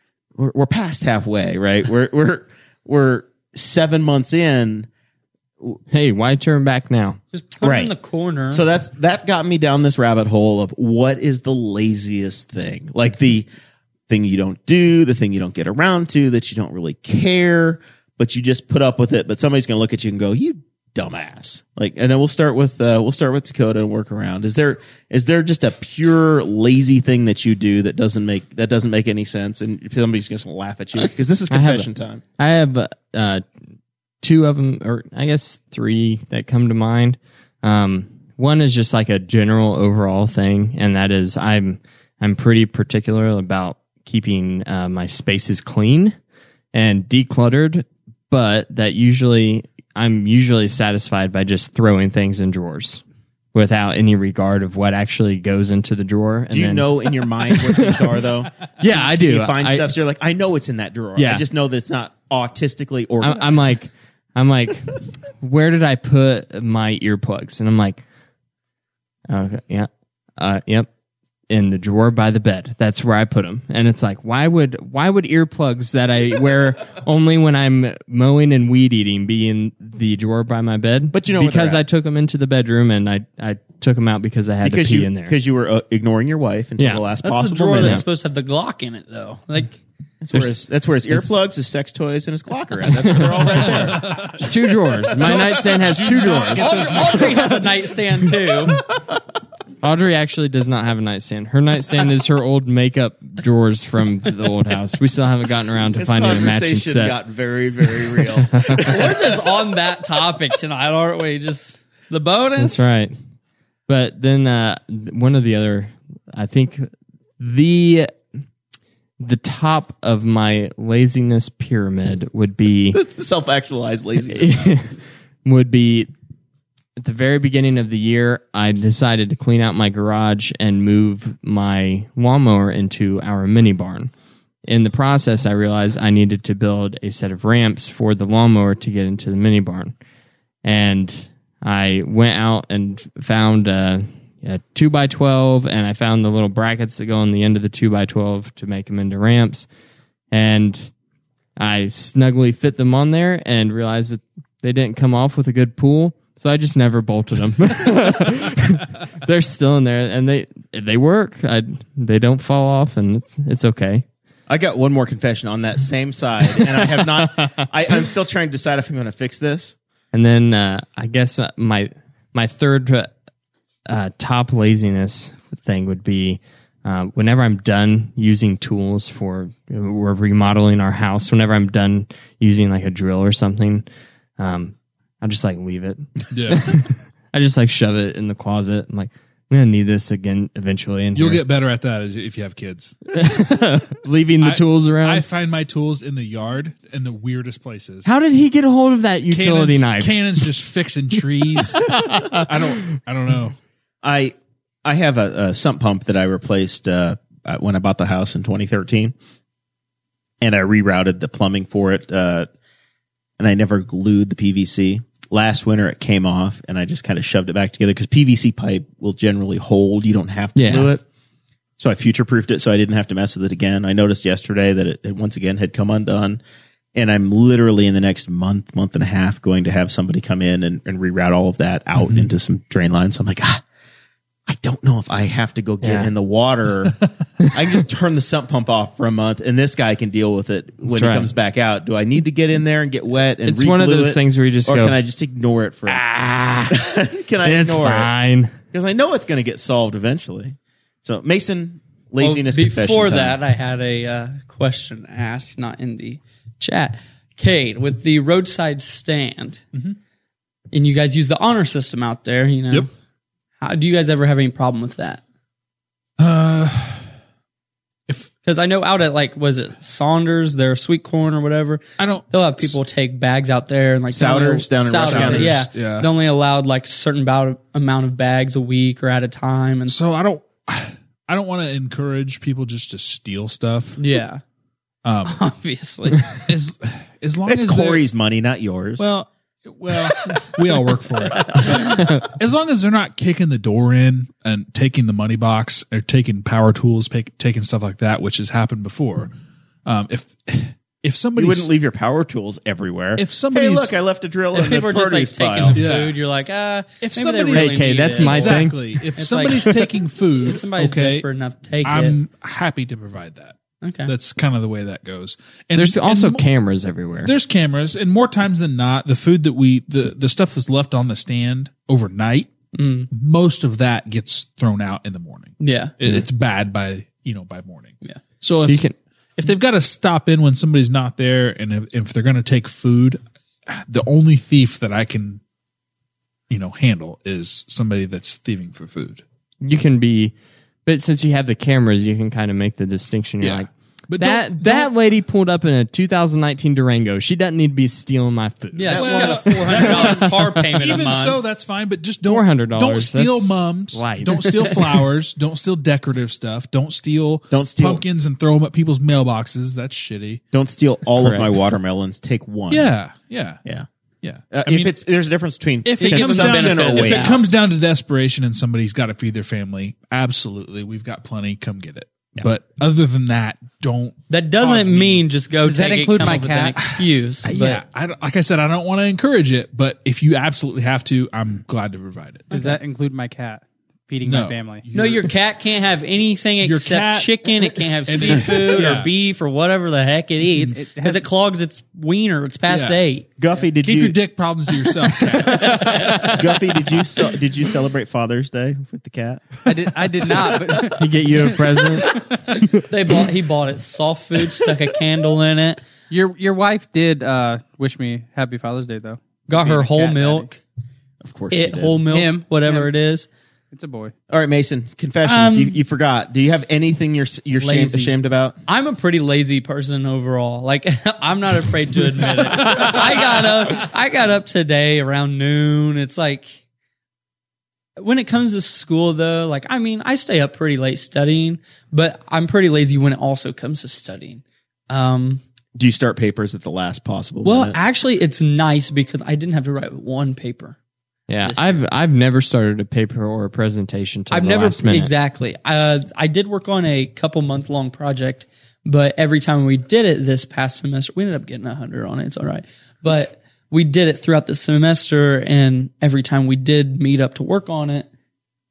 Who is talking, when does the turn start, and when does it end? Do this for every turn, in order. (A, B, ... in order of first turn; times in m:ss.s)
0:00.4-0:04.9 A
0:05.9-0:07.2 B
0:07.3-0:08.6 C
0:07.6-0:07.9 A
0:08.5-0:13.5 A
0:14.1-0:32.2 A
0:31.5-0:33.4 B
0:34.2-0:46.2 B
0:46.7-0:53.0 B
0:53.5-0:58.1 B
0:56.5-1:03.8 A
0:58.8-0:59.9 B
1:01.2-1:01.4 B
1:03.2-1:08.0 B
1:09.3-1:10.9 B
1:11.5-1:25.3 B
1:21.1-1:21.8 A
1:24.6-1:28.0 A
1:26.8-1:27.0 B
1:27.2-1:29.8 C
1:27.8-1:28.0 B
1:30.2-1:34.3 A
1:33.0-1:33.7 B
1:33.9-1:34.4 D
1:34.2-1:37.2 B
1:35.1-1:37.6 D
1:36.5-1:38.8 C
1:39.8-1:47.2 B
1:46.0-1:49.4 A
1:48.8-1:52.9 C
1:52.6-1:53.1 B
1:53.9-1:58.1 B
1:59.2-2:03.0 B
2:02.9-2:04.7 A
2:04.3-2:06.1 B
2:07.0-2:14.1 B
2:14.6-2:19.9 B
2:20.6-2:29.7 B
2:30.3-2:30.9 B
2:31.6-2:44.0 B
2:44.5-2:49.7 A
2:46.5-2:47.7 B
2:50.1-2:53.1 B
2:53.9-3:03.9 B
3:04.4-3:11.4 B
3:06.3-3:06.8 D
3:11.1-3:13.1 D
3:13.2-3:15.2 B
3:14.4-3:18.1 D
3:18.0-3:20.1 B
3:19.3-3:23.6 D
3:21.9-3:22.5 B
3:24.0-3:29.1 A
3:30.4-3:32.5 A
3:33.4-3:41.0 A
3:40.6-3:40.9 B
3:41.8-3:46.4 A
3:46.9-3:53.6 A
3:52.0-3:52.3 D
3:54.5-3:57.0 A
3:55.8-3:56.1 B
3:57.5-4:06.0 A
4:00.8-4:01.3 B
4:03.4-4:05.0 B
4:05.9-4:06.8 B
4:06.7-4:08.1 A
4:07.4-4:08.6 B
4:08.7-4:13.4 A
4:12.2-4:19.6 C
4:20.7-4:22.9 C
4:23.6-4:25.2 C
4:26.2-4:27.1 D
4:28.4-4:40.0 C
4:32.0-4:32.8 D
4:34.1-4:35.6 A
4:34.9-4:36.1 D
4:39.9-4:44.0 D
4:44.0-4:44.4 C
4:45.0-4:45.4 D
4:45.3-4:46.3 C
4:46.5-4:48.0 D
4:47.4-4:49.1 A
4:49.0-4:59.3 D
4:59.9-5:01.7 D
5:01.4-5:05.9 A
5:03.2-5:03.9 D
5:04.5-5:09.7 C
5:05.7-5:06.2 D
5:07.0-5:11.2 D
5:07.5-5:09.1 B
5:10.4-5:12.2 C
5:11.8-5:16.4 D
5:13.8-5:14.1 C
5:15.7-5:17.3 B
5:17.2-5:22.5 D
5:22.7-5:23.1 C
5:23.1-5:28.8 D
5:25.6-5:25.9 C
5:28.6-5:28.9 B
5:29.4-5:35.4 D
5:36.5-5:39.2 D
5:39.6-5:40.3 B
5:40.8-5:43.7 B
5:43.4-5:44.9 D
5:44.2-5:50.4 B
5:48.8-5:51.4 C
5:48.9-6:00.4 D
5:52.2-5:54.6 B
5:57.5-5:58.0 A
6:00.5-6:02.9 A
6:01.2-6:01.5 B
6:02.7-6:03.6 D
6:04.2-6:04.9 D
6:04.5-6:07.4 A
6:05.8-6:15.2 D
6:06.0-6:07.5 C
6:14.3-6:17.8 C
6:15.6-6:16.8 E
6:16.2-6:22.5 D
6:22.5-6:24.9 E
6:22.5-6:22.8 C
6:24.2-6:25.3 D
6:24.9-6:33.3 C
6:26.6-6:29.1 D
6:30.7-6:31.3 E
6:32.7-6:33.0 D
6:33.4-6:34.2 A
6:33.8-6:36.3 D
6:35.4-6:36.4 C
6:36.3-6:39.6 A
6:39.6-6:41.2 E
6:41.0-6:42.1 B
6:42.9-6:45.8 C
6:46.1-6:50.5 E
6:49.5-6:50.5 C
6:51.2-6:52.0 A
6:51.5-6:53.3 C
6:52.1-6:52.9 E
6:53.7-6:54.1 E
6:54.3-6:58.6 A
6:55.2-6:55.8 C
6:57.6-6:58.1 C
6:58.7-7:06.6 C
7:08.0-7:15.4 C
7:15.7-7:17.8 A
7:17.4-7:20.8 C
7:21.3-7:25.1 B
7:21.4-7:21.8 C
7:24.3-7:38.1 C